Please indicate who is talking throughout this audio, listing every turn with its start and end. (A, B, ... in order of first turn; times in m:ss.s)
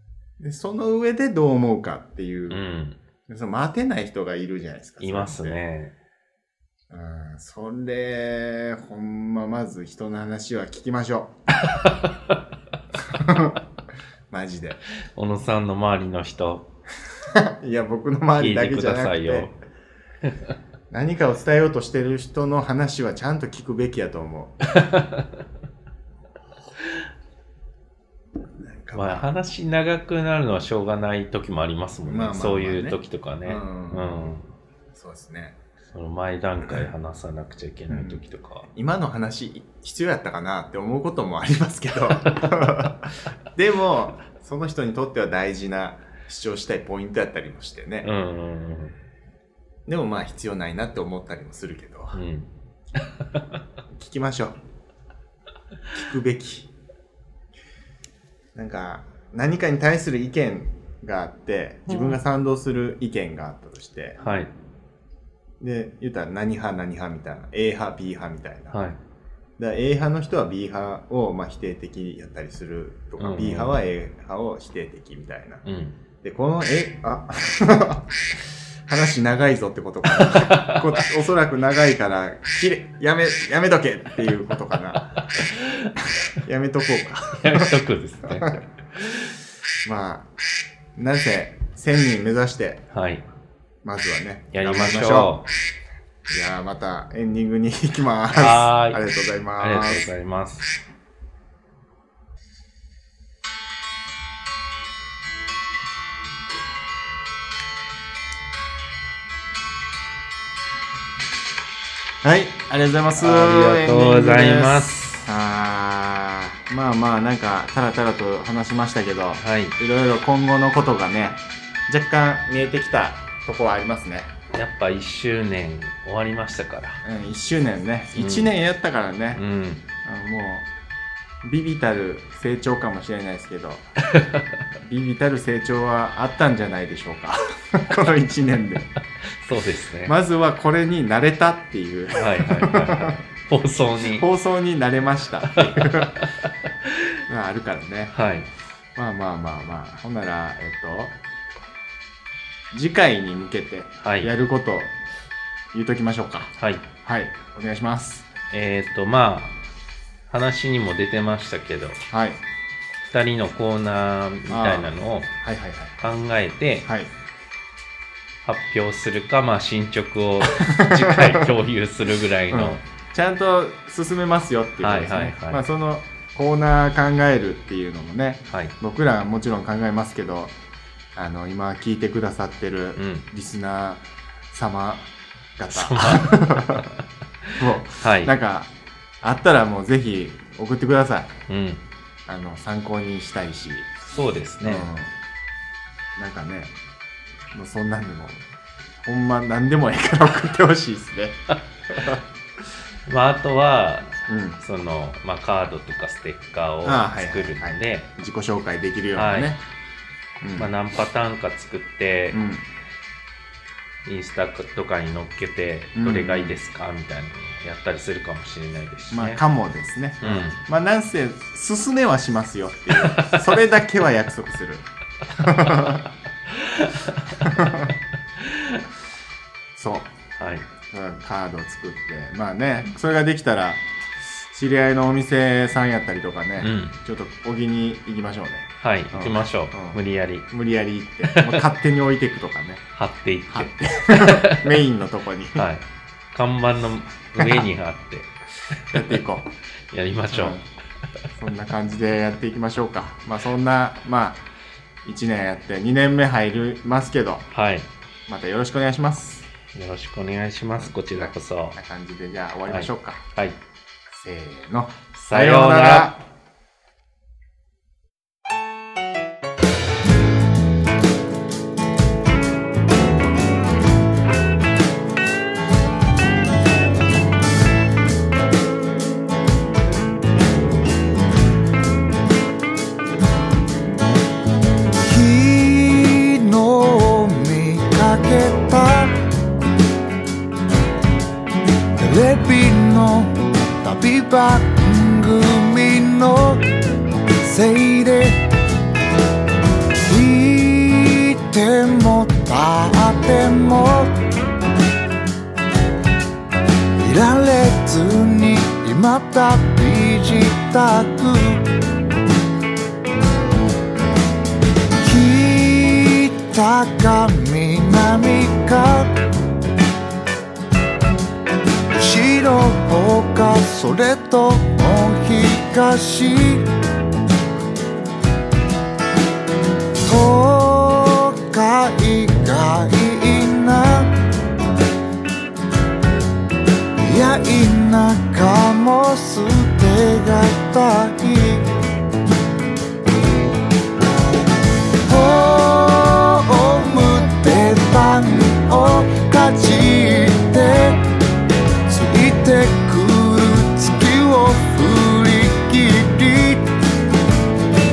0:00.4-0:02.6 A
0:02.5-0:03.0 B
0:03.3-0:05.6 A
0:05.0-0:05.9 B
0:06.9-0:11.3 A
0:11.6-0:12.4 B
0:12.9-0:13.6 A
0:14.3-0:14.8 A
0:15.1-0:16.6 B
0:17.2-0:19.5 A
0:18.4-0:19.6 B
0:20.3-0:20.5 B
0:20.9-0:24.6 A
0:24.7-0:25.4 B
0:28.6-0:29.3 A
0:28.9-0:34.5 B
0:32.0-0:34.4 A
0:34.9-0:35.6 A
0:35.9-0:38.7 B
0:37.9-0:48.1 A
0:42.3-0:42.9 B
0:48.0-0:49.0 B
0:49.8-0:52.2 A
0:52.1-0:53.6 B
0:53.9-0:54.6 A
0:55.9-0:56.7 A
0:58.5-1:04.2 A
1:01.9-1:02.2 B
1:04.2-1:04.5 B
1:05.6-1:08.8 A
1:08.7-1:09.0 B
1:09.6-1:15.6 A
1:13.2-1:13.8 B
1:15.6-1:16.0 B
1:16.2-1:25.4 A
1:20.1-1:21.0 B
1:25.3-1:25.9 B
1:26.3-1:27.7 A
1:27.3-1:29.3 B
1:29.8-1:30.3 A
1:30.9-1:32.8 A
1:32.9-1:33.2 B
1:33.8-1:35.4 A
1:34.5-1:35.5 B
1:36.3-1:40.1 A
1:38.3-1:40.7 B
1:52.2-2:04.3 A
1:53.2-1:55.3 B
1:59.4-1:59.8 B
2:04.5-2:07.0 B
2:07.0-2:09.4 A
2:08.1-2:08.5 B
2:09.3-2:09.8 B
2:10.0-2:10.7 A
2:11.4-2:13.9 A
2:14.1-2:14.6 B
2:14.8-2:18.9 A
2:19.2-2:20.2 B
2:20.0-2:23.2 A
2:22.2-2:24.3 B
2:24.0-2:26.2 A
2:25.4-2:27.2 B
2:27.3-2:28.1 A
2:28.1-2:28.5 B
2:28.9-2:31.2 A
2:32.7-2:34.9 A
2:34.0-2:34.3 B
2:35.7-2:38.3 A
2:36.6-2:36.8 B
2:38.5-2:39.6 B
2:40.3-2:42.0 B
2:42.0-2:42.4 A
2:43.1-2:45.3 B
2:44.5-2:46.0 A
2:46.0-2:46.9 B
2:46.8-2:47.1 A
2:48.4-2:52.8 B
2:50.4-2:51.5 A
2:52.5-3:00.6 A
2:54.8-2:55.6 B
2:58.5-2:58.7 B
3:01.1-3:06.9 A
3:03.0-3:03.3 B
3:05.7-3:08.3 B
3:07.6-3:11.4 A
3:11.5-3:11.8 B
3:12.2-3:13.9 A
3:14.1-3:14.9 B
3:14.6-3:15.1 A
3:16.2-3:16.7 A
3:17.5-3:18.4 A
3:19.0-3:22.2 A
3:23.1-3:28.1 B
3:24.2-3:24.6 A
3:26.8-3:29.6 A
3:29.1-3:29.6 B
3:30.4-3:30.7 A
3:30.6-3:32.4 B
3:32.3-3:32.6 A
3:34.0-3:39.4 B
3:35.9-3:36.6 A
3:39.1-3:46.1 A
3:40.2-3:40.6 B
3:42.9-3:43.5 B
3:46.5-3:48.8 B
3:47.3-3:47.9 A
3:49.7-3:50.2 A
3:50.4-3:50.7 B
3:50.7-4:02.9 A
3:56.6-3:57.0 B
3:58.8-4:00.5 B
4:01.2-4:01.7 B
4:02.9-4:04.8 B
4:03.5-4:05.6 A
4:05.5-4:09.2 B
4:07.4-4:07.6 A
4:08.9-4:09.5 A
4:09.9-4:10.6 B
4:10.3-4:10.6 A
4:11.3-4:14.5 A
4:15.0-4:17.5 A
4:17.5-4:17.9 B
4:18.3-4:19.5 A
4:19.7-4:21.8 B
4:21.2-4:23.2 A
4:22.7-4:23.6 B
4:24.1-4:26.2 A
4:25.1-4:26.1 B
4:45.0-4:49.2 C
4:52.0-4:56.7 C
4:57.4-4:58.4 C
5:00.0-5:04.2 C
5:07.0-5:11.7 C
5:15.0-5:19.2 C
5:21.9-5:26.7 C
5:30.0-5:34.1 C
5:37.0-5:41.7 C
5:45.0-5:51.1 C
5:51.9-5:56.7 C